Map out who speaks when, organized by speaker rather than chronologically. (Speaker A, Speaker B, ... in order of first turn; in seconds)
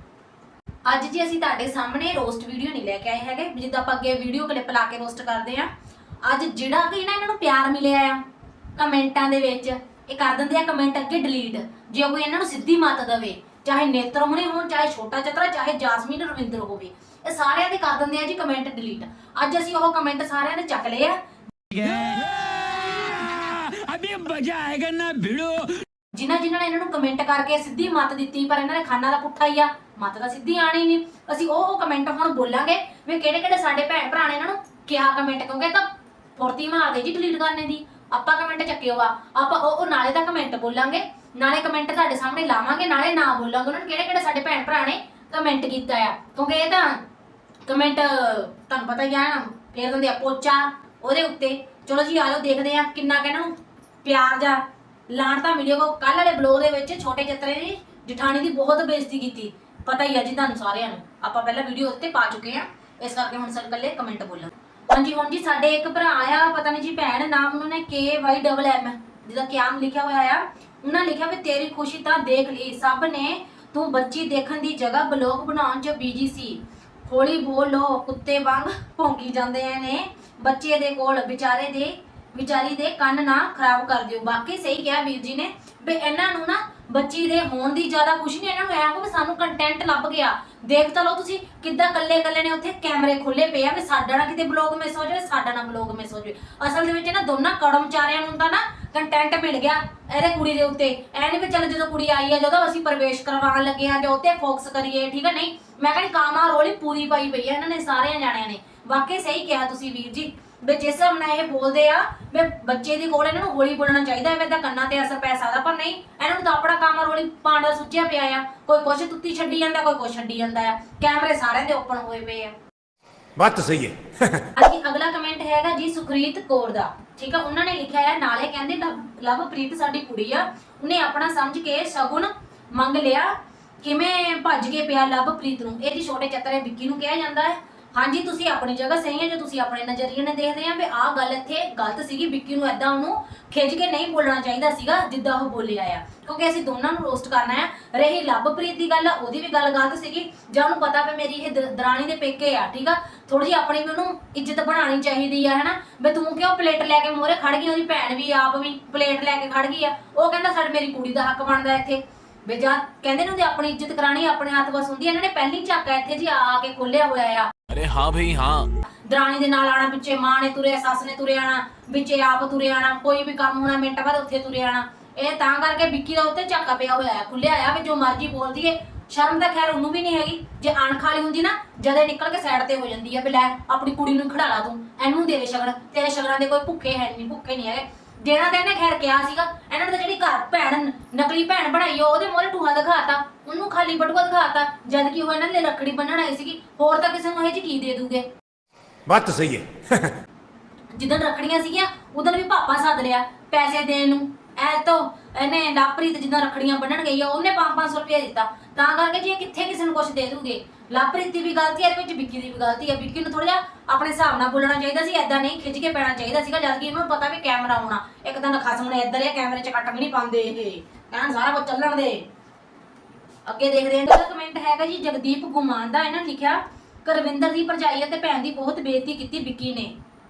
Speaker A: 0.9-5.7, 6.2-8.2, 8.8-21.2, 26.1-47.0, 47.7-122.5, 124.5-167.5, 169.0-198.3, 200.9-222.3, 223.5-230.0
Speaker B: 21.7-25.9, 167.7-168.7
Speaker C: 123.4-124.5, 199.1-200.2